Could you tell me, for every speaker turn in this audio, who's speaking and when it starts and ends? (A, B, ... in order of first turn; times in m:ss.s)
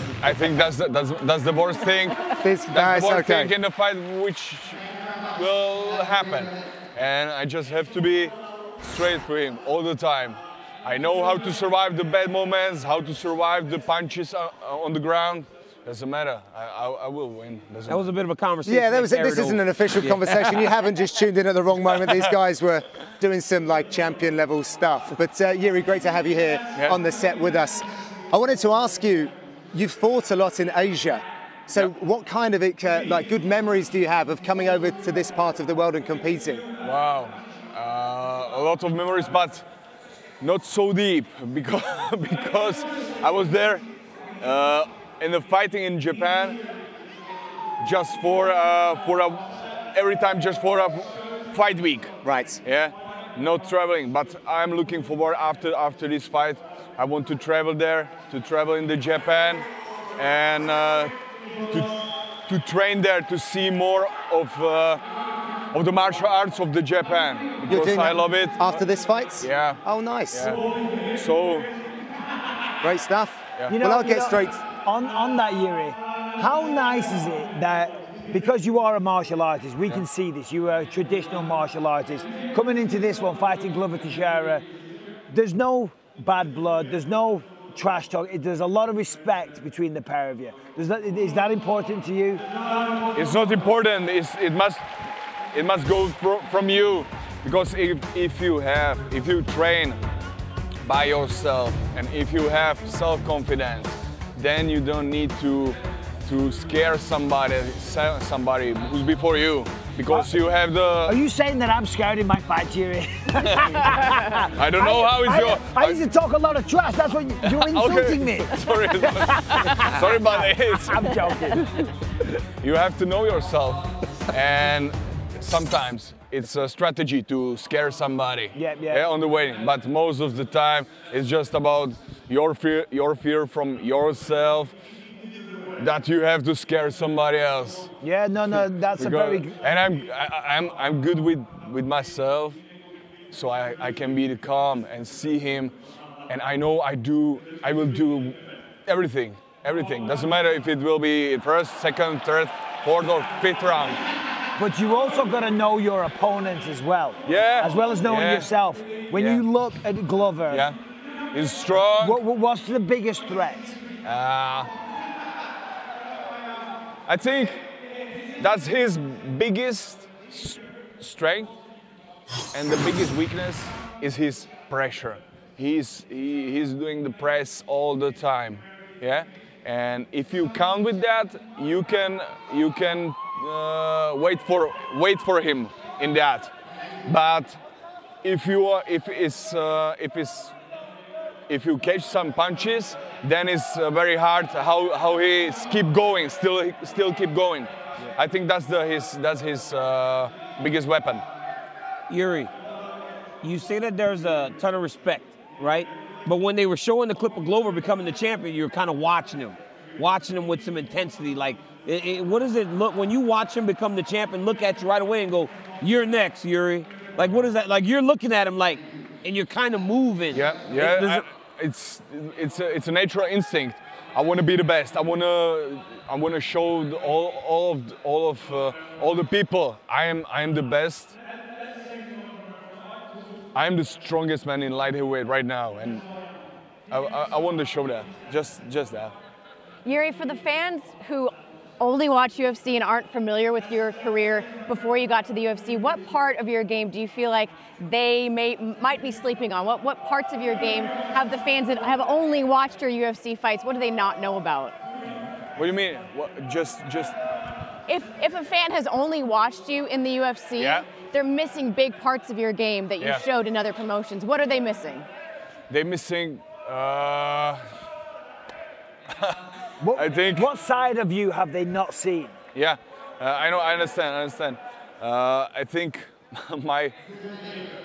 0:00.2-0:04.8 A
0:02.4-0:03.5 B
0:05.4-0:18.1 A
0:17.9-0:20.6 C
0:18.7-0:36.6 B
0:36.8-0:39.6 A
0:40.4-0:43.8 A
0:44.4-0:46.6 A
0:47.8-0:49.4 A
0:49.9-0:52.1 A
0:52.2-0:52.6 B
0:52.6-0:59.7 A
1:00.2-1:01.1 A
1:02.5-1:05.0 A
1:05.7-1:08.8 A
1:07.7-1:10.5 B
1:09.4-1:09.8 A
1:10.3-1:10.6 A
1:11.2-1:11.7 A
1:12.8-1:14.6 B
1:13.7-1:24.6 D
1:25.3-1:32.4 D
1:33.2-1:34.9 A
1:35.5-1:40.0 A
1:40.8-1:51.2 A
1:50.1-1:50.4 D
1:51.0-2:01.9 D
1:54.4-1:56.0 A
1:57.4-2:01.2 A
2:02.6-2:14.8 A
2:08.6-2:09.0 D
2:15.8-2:17.9 A
2:18.0-2:19.6 D
2:18.5-2:22.6 A
2:23.3-2:25.7 A
2:26.3-2:34.0 A
2:34.6-2:40.6 D
2:37.3-2:38.5 A
2:39.1-2:39.4 A
2:40.5-2:40.8 A
2:41.3-2:42.2 A
2:41.9-2:43.8 D
2:44.0-2:44.7 A
2:47.1-2:47.6 A
2:48.4-2:51.6 A
2:52.5-3:06.5 A
3:07.1-3:07.6 A
3:08.2-3:10.6 A
3:11.5-3:21.2 A
3:22.1-3:22.5 C
3:23.4-3:41.3 C
3:40.3-3:51.2 A
3:53.5-3:56.0 A
3:56.9-3:59.2 A
3:59.8-4:14.8 E
4:15.6-4:17.2 A
4:17.9-4:25.1 E
4:20.6-4:20.8 A
4:25.7-4:27.6 A
4:29.1-4:29.4 A
4:29.8-4:32.4 D
4:29.9-4:30.5 A
4:32.5-4:37.0 A